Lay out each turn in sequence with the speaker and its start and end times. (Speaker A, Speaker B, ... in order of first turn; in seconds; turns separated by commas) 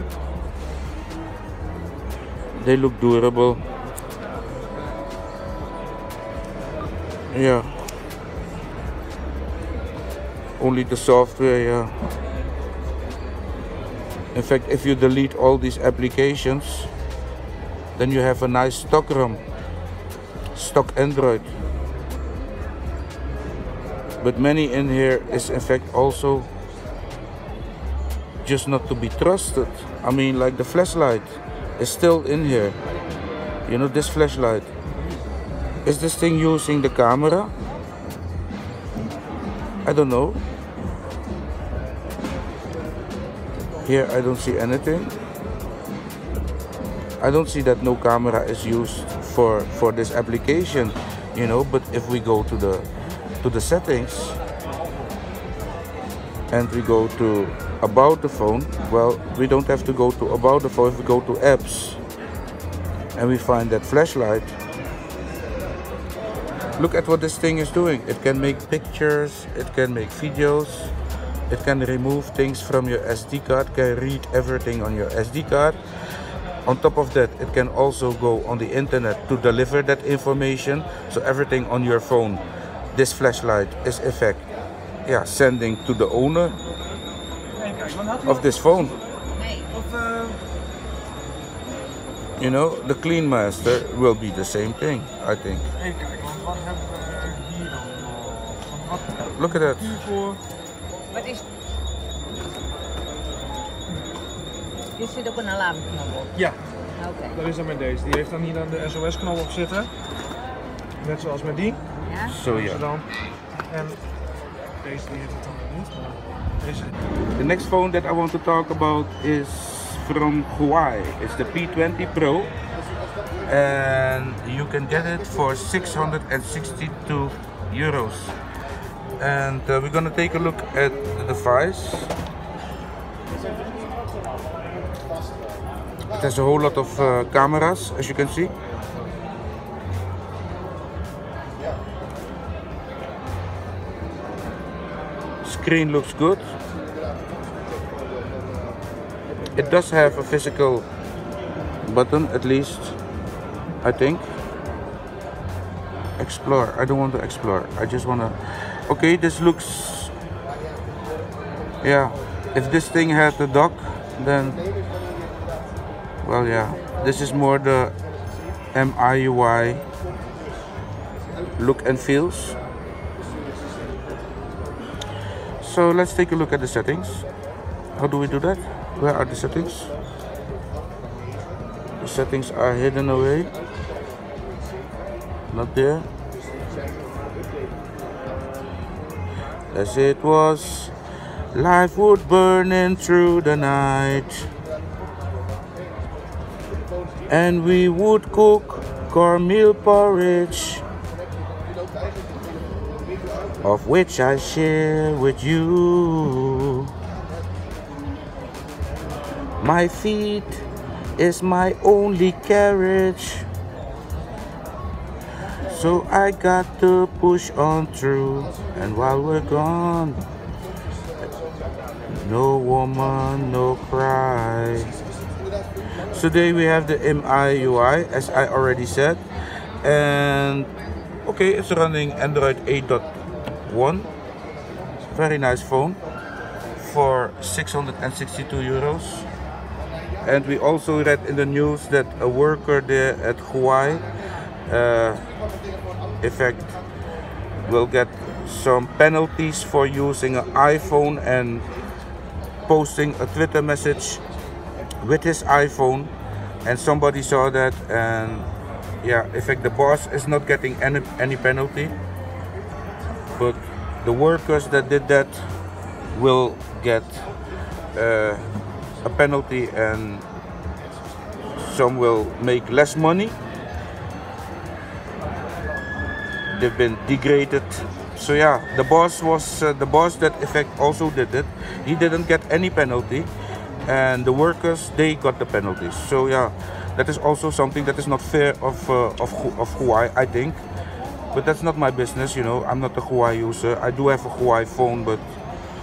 Speaker A: 2.6-3.6, Speaker A: 7.3-7.7, Speaker A: 10.6-11.9, Speaker A: 14.3-16.9, Speaker A: 17.9-19.4, Speaker A: 20.5-21.5, Speaker A: 24.2-26.5, Speaker A: 28.4-32.8, Speaker A: 33.7-34.7, Speaker A: 35.8-37.5, Speaker A: 39.8-40.4, Speaker A: 43.8-45.1, Speaker A: 47.2-52.9, Speaker A: 53.4-54.4, Speaker A: 56.5-62.0, Speaker A: 63.1-64.6, Speaker A: 66.8-70.9, Speaker A: 71.5-75.8, Speaker A: 76.6-84.5, Speaker A: 85.0-86.6, Speaker B: 87.6-88.4, Speaker A: 88.2-89.0, Speaker C: 89.3-89.7, Speaker B: 89.7-90.4, Speaker A: 92.4-95.7, Speaker B: 95.8-100.4, Speaker A: 99.3-100.0, Speaker C: 101.1-101.4, Speaker C: 105.0-106.3, Speaker C: 107.0-107.4, Speaker B: 107.3-109.9, Speaker B: 111.0-113.1, Speaker C: 112.1-112.3, Speaker A: 112.3-112.8, Speaker B: 113.7-114.0, Speaker B: 114.8-116.9, Speaker A: 117.3-122.5, Speaker A: 123.5-128.3, Speaker A: 129.2-132.1, Speaker A: 136.1-138.5, Speaker A: 145.4-146.5, Speaker A: 149.5-150.9, Speaker A: 151.8-153.0, Speaker A: 153.8-154.2, Speaker A: 156.2-160.1, Speaker A: 161.8-164.6, Speaker A: 166.2-167.9, Speaker A: 168.7-169.8, Speaker A: 171.6-172.6, Speaker A: 175.6-177.2, Speaker A: 177.9-179.9, Speaker A: 182.0-183.5, Speaker A: 185.5-186.1, Speaker A: 189.7-190.9, Speaker A: 191.5-194.5, Speaker A: 197.3-200.8, Speaker A: 203.6-206.9, Speaker A: 209.6-210.7, Speaker A: 211.2-213.5, Speaker A: 215.7-220.2, Speaker A: 222.1-224.9, Speaker A: 226.1-229.2, Speaker A: 229.8-230.7, Speaker A: 231.2-233.1, Speaker A: 233.7-234.1, Speaker A: 235.0-236.0, Speaker A: 236.8-239.3, Speaker A: 240.2-244.0, Speaker A: 244.7-245.2, Speaker A: 246.2-246.8, Speaker A: 247.6-251.6, Speaker A: 252.7-254.2, Speaker A: 255.0-256.1, Speaker A: 256.6-258.5, Speaker A: 259.0-262.0, Speaker A: 263.4-265.4, Speaker A: 266.1-267.3, Speaker A: 267.9-268.4, Speaker A: 269.0-270.2, Speaker A: 271.6-273.4, Speaker A: 276.5-283.3, Speaker A: 283.9-290.6, Speaker A: 291.3-295.2